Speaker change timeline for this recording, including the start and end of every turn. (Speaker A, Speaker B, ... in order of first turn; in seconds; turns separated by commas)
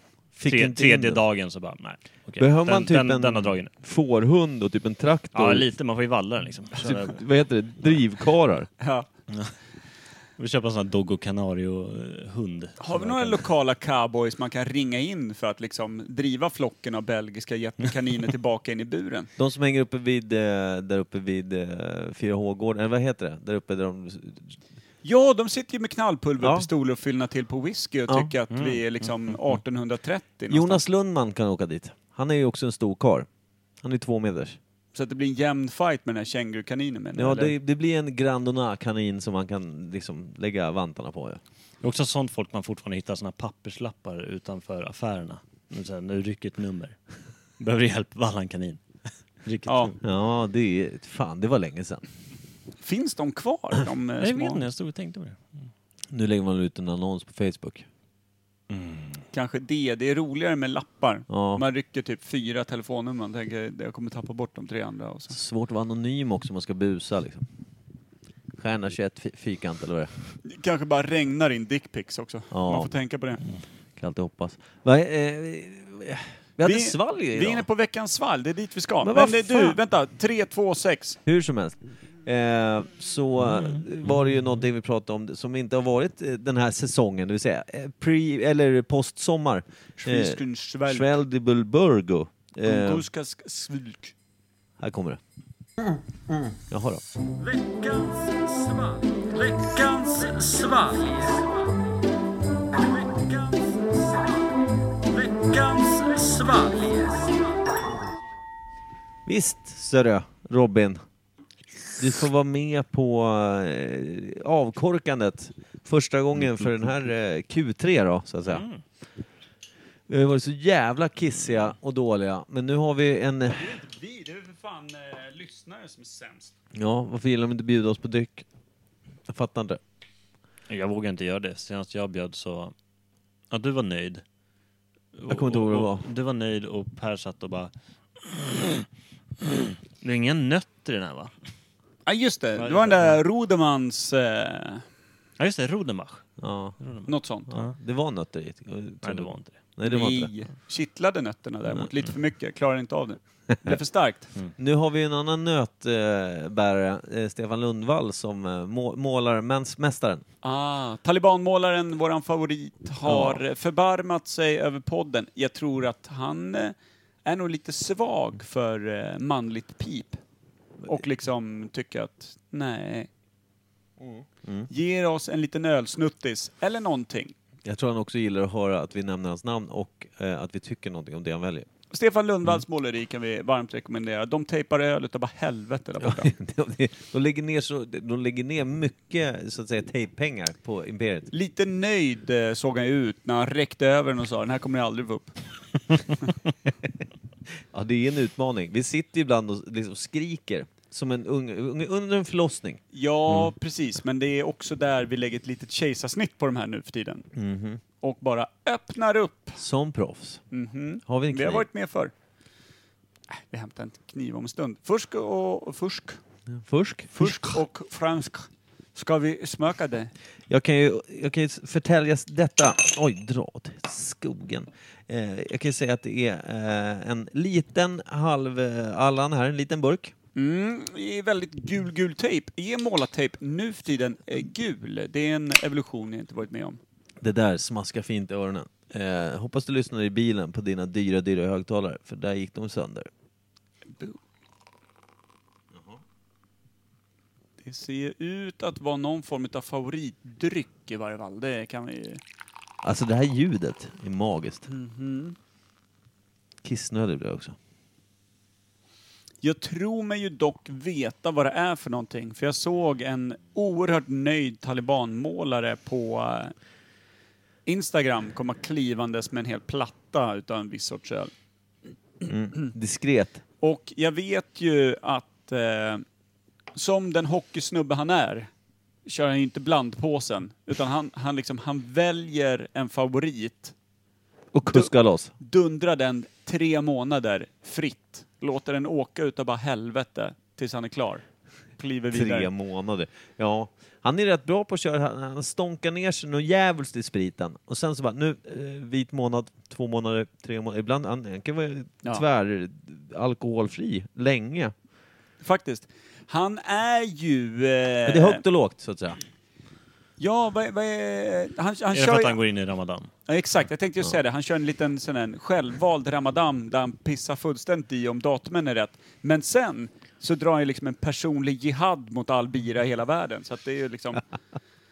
Speaker A: 0.4-1.2, Speaker B: 0.4-3.7, Speaker A: 2.4-5.7, Speaker B: 5.3-7.2, Speaker A: 6.8-8.7, Speaker C: 8.8-9.1, Speaker B: 10.4-13.5, Speaker C: 12.8-19.3, Speaker A: 19.4-24.6, Speaker C: 25.0-30.8, Speaker A: 26.4-26.7, Speaker B: 28.5-29.6, Speaker A: 30.5-33.3, Speaker A: 33.8-34.6, Speaker C: 34.9-37.5, Speaker A: 37.1-41.4, Speaker B: 41.8-47.0, Speaker B: 47.6-48.8, Speaker B: 49.4-50.0, Speaker C: 49.7-49.9, Speaker A: 50.0-52.0, Speaker C: 52.8-54.6, Speaker B: 54.2-55.7, Speaker A: 56.1-57.9, Speaker B: 58.7-59.2, Speaker C: 59.3-65.4, Speaker A: 61.3-61.6, Speaker A: 65.3-67.5, Speaker A: 68.6-70.1, Speaker C: 70.5-73.4, Speaker A: 72.5-72.9, Speaker A: 74.0-77.7, Speaker C: 76.6-81.2, Speaker A: 79.0-79.8, Speaker A: 81.3-93.1, Speaker C: 90.0-91.2, Speaker C: 92.6-94.1, Speaker A: 94.8-95.2, Speaker A: 96.6-97.0, Speaker C: 97.4-101.5, Speaker C: 103.1-103.9, Speaker C: 105.3-107.2, Speaker A: 109.2-111.0, Speaker A: 112.0-118.7, Speaker B: 118.5-118.8, Speaker A: 120.1-123.8, Speaker C: 123.5-126.5, Speaker A: 126.7-128.5, Speaker A: 129.3-129.8, Speaker B: 130.7-132.7, Speaker B: 133.5-134.2, Speaker B: 135.2-137.7, Speaker A: 135.3-136.1, Speaker B: 138.6-138.8, Speaker B: 139.5-141.3, Speaker C: 142.1-144.8, Speaker B: 142.6-143.2, Speaker B: 145.4-147.7, Speaker A: 146.4-146.8, Speaker C: 147.1-147.5, Speaker A: 147.5-150.3, Speaker B: 149.0-149.6, Speaker C: 149.8-154.3, Speaker A: 154.6-160.2, Speaker C: 160.4-170.2, Speaker A: 163.1-163.4, Speaker C: 170.9-173.1, Speaker A: 174.0-174.7, Speaker C: 174.7-177.3, Speaker A: 177.7-181.7, Speaker C: 181.9-186.3, Speaker A: 186.0-191.3, Speaker C: 191.3-195.4, Speaker A: 197.7-202.8, Speaker C: 202.9-207.3, Speaker A: 207.3-207.8, Speaker C: 208.0-209.6, Speaker A: 209.6-210.4, Speaker C: 210.5-212.1, Speaker A: 211.1-211.7, Speaker C: 213.3-216.2, Speaker A: 216.5-217.6, Speaker C: 217.2-220.1, Speaker A: 220.5-230.1, Speaker C: 230.4-236.8, Speaker A: 237.2-243.1, Speaker C: 243.9-244.2, Speaker C: 247.6-252.2, Speaker A: 252.8-254.7, Speaker C: 254.7-255.4, Speaker A: 256.6-257.6, Speaker C: 259.4-266.5, Speaker C: 267.7-271.3, Speaker A: 272.2-273.4, Speaker C: 273.6-276.0, Speaker C: 276.8-278.5, Speaker C: 279.1-283.7, Speaker A: 284.5-285.3, Speaker C: 284.7-291.2, Speaker C: 291.8-292.5, Speaker A: 292.1-304.7, Speaker C: 305.4-308.4, Speaker A: 308.1-309.2, Speaker C: 310.2-312.4, Speaker B: 311.9-313.1, Speaker C: 313.3-324.2